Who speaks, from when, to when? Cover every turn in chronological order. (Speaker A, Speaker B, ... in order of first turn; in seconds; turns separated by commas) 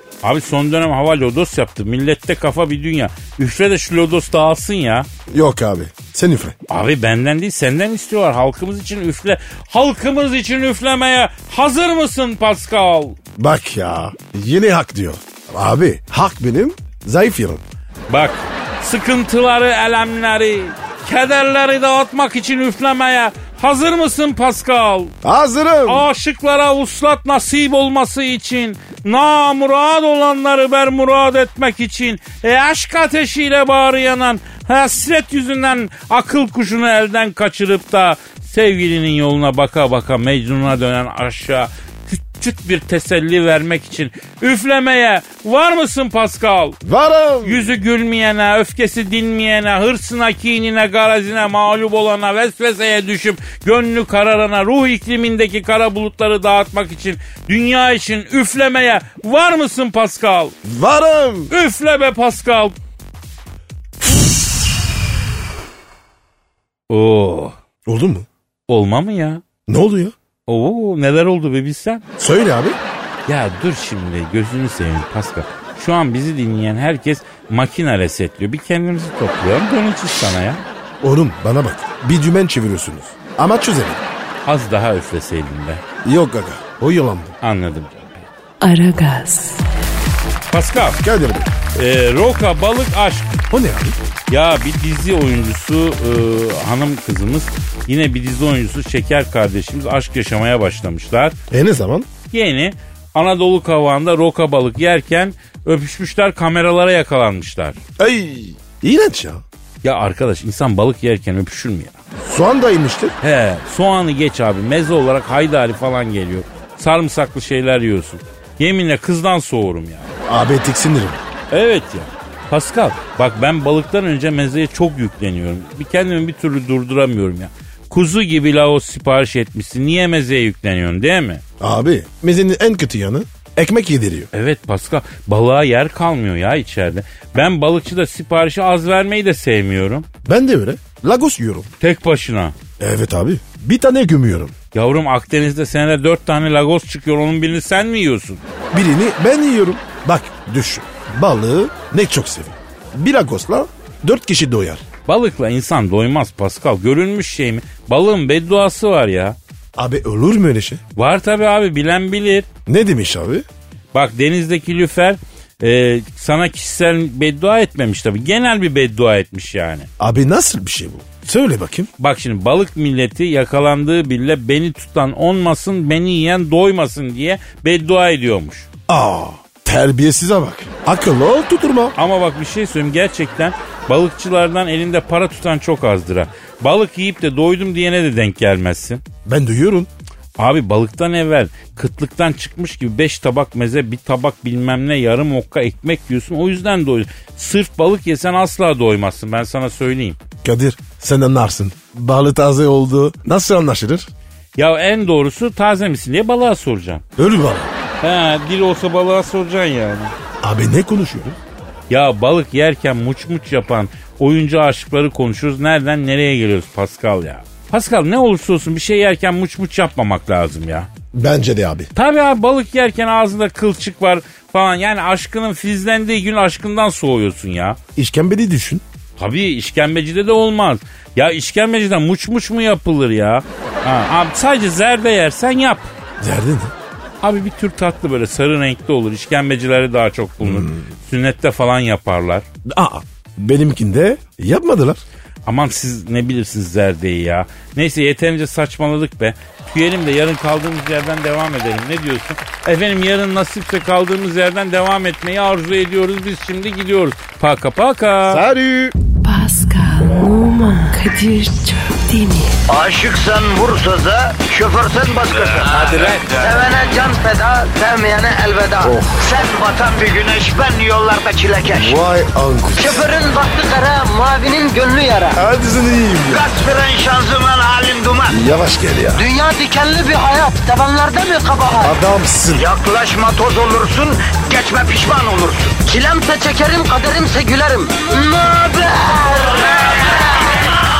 Speaker A: 0.2-5.1, Speaker B: 5.3-6.5, Speaker A: 6.7-13.2, Speaker B: 13.4-17.6, Speaker A: 18.1-25.1, Speaker B: 25.2-26.1, Speaker A: 25.9-46.8, Speaker B: 46.8-47.7, Speaker A: 47.4-60.5, Speaker B: 60.6-61.5, Speaker A: 61.5-62.8, Speaker A: 66.9-67.5, Speaker B: 67.8-68.3, Speaker A: 68.7-69.4, Speaker B: 69.7-70.1, Speaker A: 70.5-72.0, Speaker B: 72.2-72.8, Speaker A: 73.3-80.6, Speaker B: 81.0-84.0, Speaker A: 84.5-85.8, Speaker B: 86.0-87.3, Speaker A: 87.4-88.3, Speaker C: 88.6-89.6, Speaker A: 90.5-91.0, Speaker B: 91.0-91.5, Speaker A: 91.7-93.3, Speaker B: 93.5-94.0, Speaker A: 94.3-101.4, Speaker B: 101.5-102.1, Speaker A: 102.3-107.8, Speaker B: 108.0-109.4, Speaker A: 109.8-112.0, Speaker B: 112.2-113.1, Speaker A: 113.2-120.1, Speaker B: 120.2-121.2, Speaker A: 121.5-131.4, Speaker B: 131.6-134.3, Speaker A: 134.3-140.1, Speaker B: 140.2-141.7, Speaker A: 141.8-142.6, Speaker B: 142.8-144.5, Speaker A: 144.7-148.4, Speaker B: 148.7-154.8, Speaker A: 155.1-159.4, Speaker B: 159.8-160.8, Speaker A: 160.9-162.5, Speaker B: 162.7-163.4, Speaker A: 163.9-169.9, Speaker B: 170.0-171.9, Speaker A: 172.0-178.7, Speaker B: 178.9-181.9, Speaker A: 181.9-189.0, Speaker B: 189.2-189.9, Speaker A: 190.4-200.2, Speaker B: 200.4-204.1, Speaker A: 204.6-207.0, Speaker B: 207.2-207.7, Speaker A: 208.0-210.1, Speaker B: 210.4-211.4, Speaker A: 211.9-220.9, Speaker B: 221.1-221.9, Speaker A: 221.9-227.8, Speaker B: 227.9-228.8, Speaker A: 229.2-235.9, Speaker B: 236.2-236.7, Speaker A: 237.2-242.4, Speaker B: 240.4-240.8, Speaker B: 242.7-245.0, Speaker A: 245.4-258.4, Speaker B: 258.3-258.9, Speaker C: 259.2-262.6, Speaker D: 262.7-272.0, Speaker B: 268.8-269.1, Speaker B: 271.7-273.0, Speaker D: 272.7-275.4, Speaker B: 275.3-276.5, Speaker D: 276.2-278.4, Speaker B: 278.3-279.2, Speaker D: 279.1-281.9, Speaker B: 281.8-282.7, Speaker D: 282.5-290.4